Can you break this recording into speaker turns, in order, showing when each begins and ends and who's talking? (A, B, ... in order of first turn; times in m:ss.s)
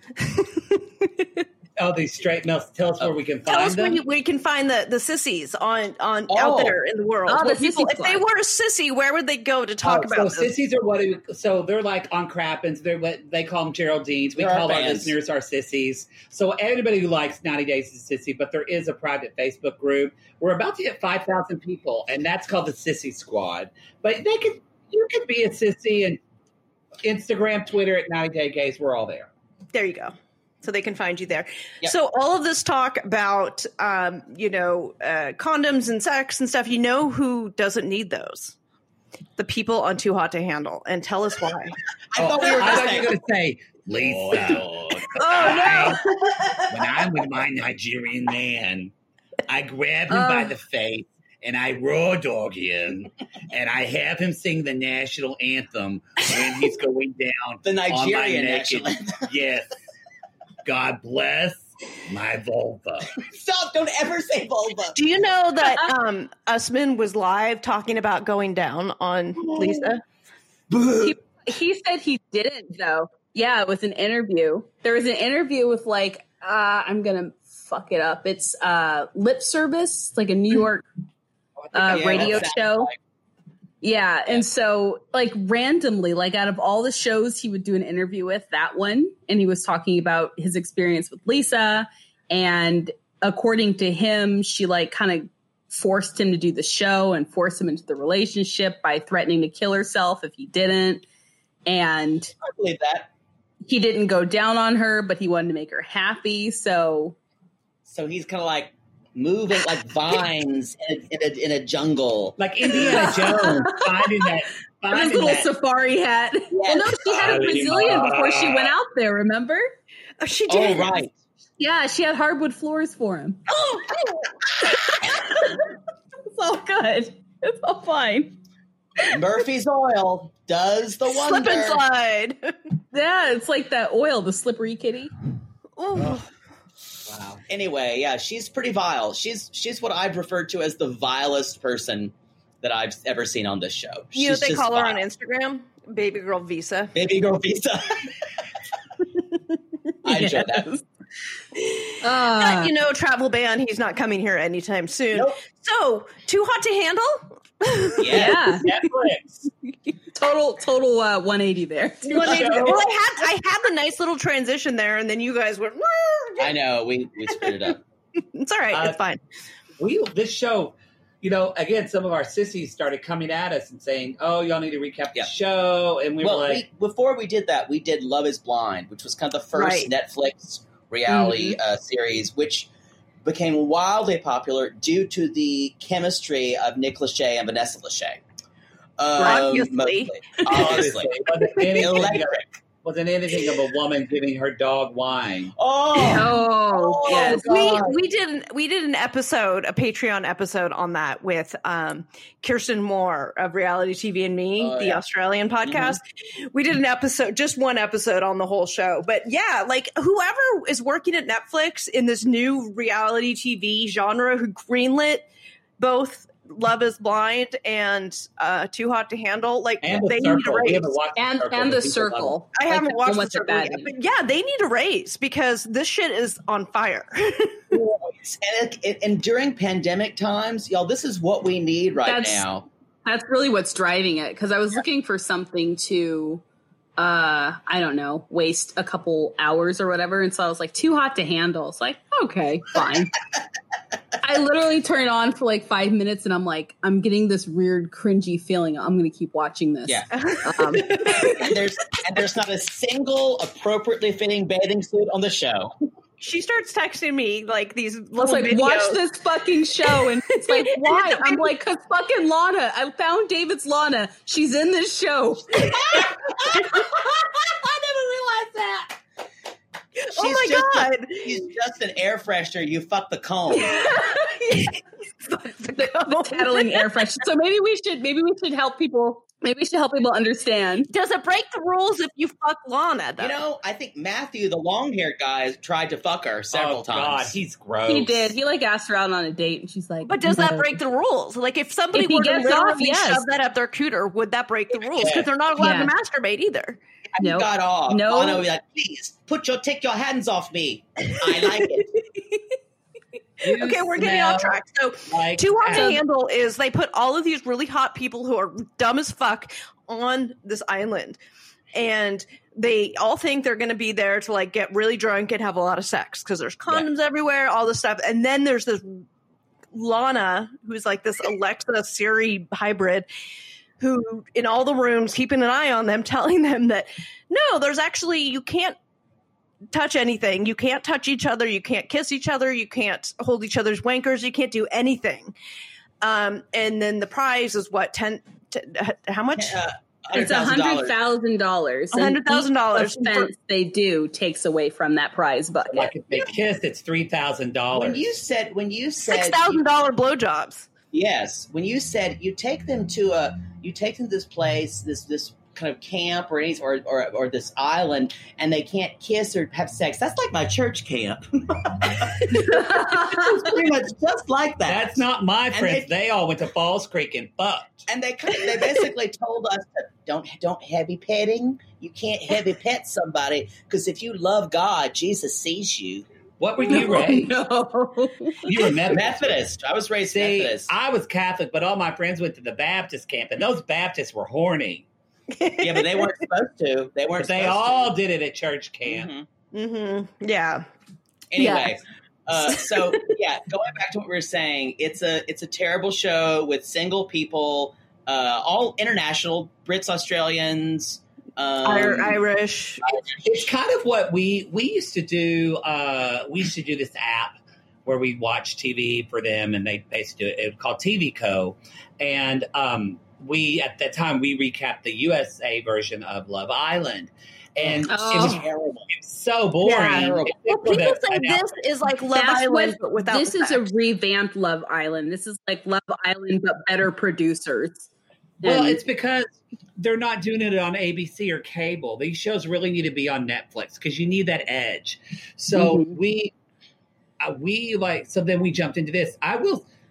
0:00.2-0:01.4 A
0:01.8-0:04.0 B
0:03.5-0:10.5 A
0:06.3-0:06.8 C
0:07.3-0:08.2 D
0:09.8-0:26.2 B
0:14.4-0:15.1 C
0:27.0-0:29.3 B
0:29.7-0:38.5 A
0:39.4-0:41.8 A
0:42.1-0:43.2 C
0:42.2-0:46.1 B
0:42.6-0:42.9 A
0:45.1-0:46.6 A
0:45.4-0:45.9 D
0:46.7-0:48.9 B
0:49.5-0:59.7 B
0:57.6-0:59.3 C
1:00.6-1:03.1 B
1:03.2-1:05.0 C
1:04.9-1:10.0 A
1:09.4-1:09.9 C
1:10.7-1:11.1 C
1:11.0-1:20.8 D
1:21.6-1:22.5 B
1:21.7-1:22.9 D
1:21.9-1:23.0 C
1:23.8-1:41.0 D
1:41.6-1:42.3 D
1:42.4-1:43.1 C
1:43.6-1:47.2 D
1:47.8-1:53.1 C
1:52.4-1:55.5 B
1:52.7-1:54.2 D
1:54.9-1:59.7 D
1:56.5-1:57.4 C
1:57.0-1:58.7 B
2:00.2-2:01.0 A
2:00.5-2:01.1 C
2:01.6-2:03.4 D
2:03.5-2:04.3 A
2:04.6-2:05.7 D
2:06.2-2:08.4 D
2:09.0-2:11.8 C
2:11.1-2:12.5 A
2:12.9-2:15.1 D
2:15.8-2:16.3 A
2:17.0-2:17.4 B
2:17.5-2:25.0 C
2:24.1-2:26.9 A
2:26.9-2:28.1 C
2:30.0-2:30.8 C
2:30.1-2:30.6 D
2:31.5-2:38.3 A
2:32.0-2:32.7 D
2:35.1-2:35.4 C
2:38.0-2:38.5 C
2:38.1-2:38.7 D
2:38.6-2:39.5 B
2:40.1-2:42.8 D
2:42.1-2:46.5 A
2:42.2-2:42.9 B
2:46.4-2:47.8 C
2:48.2-2:49.2 A
2:48.7-2:49.0 B
2:49.8-2:56.6 B
2:56.2-3:02.7 C
2:59.5-2:59.9 A
3:01.1-3:01.6 D
3:03.2-3:08.2 C
3:09.0-3:12.5 C
3:09.2-3:10.2 A
3:10.4-3:15.5 B
3:15.6-3:18.0 C
3:16.0-3:17.7 D
3:17.0-3:35.3 A
3:24.6-3:25.0 C
3:25.6-3:26.0 C
3:35.8-3:40.9 A
3:39.8-3:42.4 B
3:41.2-3:43.9 D
3:42.6-3:47.8 A
3:47.7-3:52.6 C
3:52.0-3:52.5 D
3:53.0-3:56.4 D
3:57.0-4:03.2 D
4:04.2-4:11.5 D
4:09.8-4:15.7 C
4:10.1-4:11.4 A
4:16.2-4:19.0 A
4:18.2-4:26.1 D
4:19.8-4:21.5 A
4:25.9-4:29.0 B
4:30.1-4:33.8 C
4:30.1-4:31.4 A
4:33.5-4:37.1 A
4:33.8-4:34.6 D
4:35.8-4:40.9 D
4:40.9-4:43.4 A
4:43.2-4:47.4 C
4:46.5-4:48.3 B
4:47.9-4:50.8 D
4:50.0-4:56.8 A
4:51.9-4:53.2 D
4:55.6-4:55.9 D
4:57.1-5:01.9 C
4:57.2-4:58.4 D
5:03.4-5:06.0 B
5:03.4-5:11.2 A
5:05.7-5:06.0 D
5:11.7-5:19.0 A
5:19.7-5:23.1 A
5:23.8-5:28.8 A
5:29.7-5:35.3 A
5:36.0-5:39.6 A
5:39.3-5:41.0 C
5:40.1-5:45.9 D
5:41.9-5:43.3 A
5:45.7-5:48.1 B
5:47.7-5:49.6 C
5:49.1-5:50.7 A
5:50.9-6:05.9 C
6:04.6-6:07.8 B
6:07.9-6:16.0 C
6:16.4-6:17.4 B
6:16.6-6:18.6 D
6:18.4-6:19.4 B
6:18.9-6:20.7 C
6:20.1-6:24.8 B
6:25.3-6:26.1 A
6:25.6-6:27.9 C
6:27.2-6:29.1 B
6:28.8-6:29.3 C
6:29.5-6:30.7 A
6:31.3-6:42.2 C
6:31.4-6:31.7 A
6:32.5-6:32.9 A
6:41.6-6:43.0 A
6:43.2-7:01.5 B
6:57.6-6:58.9 C
6:57.9-6:58.4 D
6:59.6-7:03.7 A
6:59.9-7:00.4 C
7:02.1-7:07.9 D
7:08.4-7:08.8 D
7:08.4-7:16.3 B
7:15.5-7:16.0 D
7:17.2-7:19.6 B